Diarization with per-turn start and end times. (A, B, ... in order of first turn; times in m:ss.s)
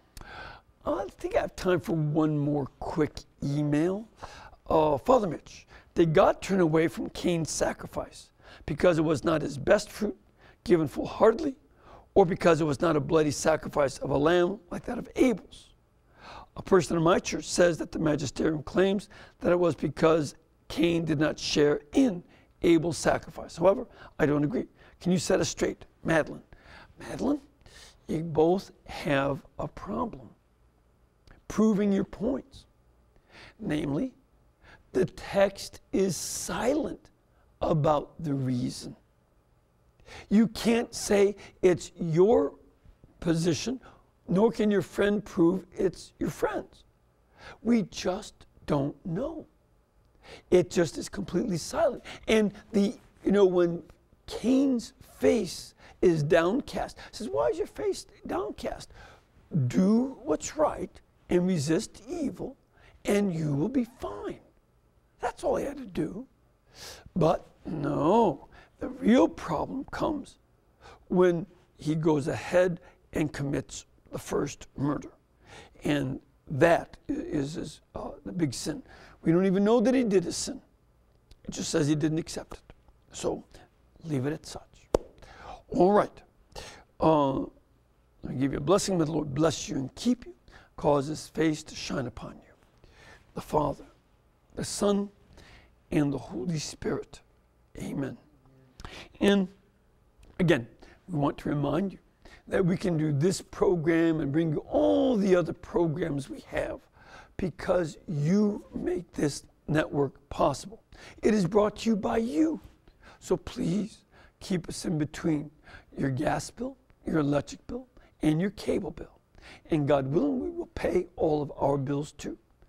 0:00.8-0:04.1 A
0:04.7-0:11.6 A
0:12.2-0:15.7 A
0:16.6-0:26.4 A
0:27.0-0:27.4 A
0:28.1-0:30.4 A
0:31.5-0:32.7 A
0:33.6-0:34.2 A
0:34.9-0:37.1 A
0:37.6-0:39.0 A
0:40.3-0:42.6 A
0:43.2-0:46.8 A
0:47.6-0:49.5 A
0:50.5-0:58.9 A
0:59.5-1:04.4 A
1:05.2-1:06.3 A
1:07.2-1:10.4 A
1:11.1-1:15.1 A
1:15.8-1:20.6 A
1:21.5-1:23.5 A
1:24.0-1:24.9 A
1:25.7-1:26.2 A
1:27.0-1:27.5 A
1:28.2-1:32.6 A
1:33.3-1:33.9 A
1:34.6-1:35.1 A
1:35.9-1:37.2 A
1:37.8-1:38.2 A
1:39.2-1:39.5 A
1:40.4-1:52.6 A
1:53.2-2:02.4 A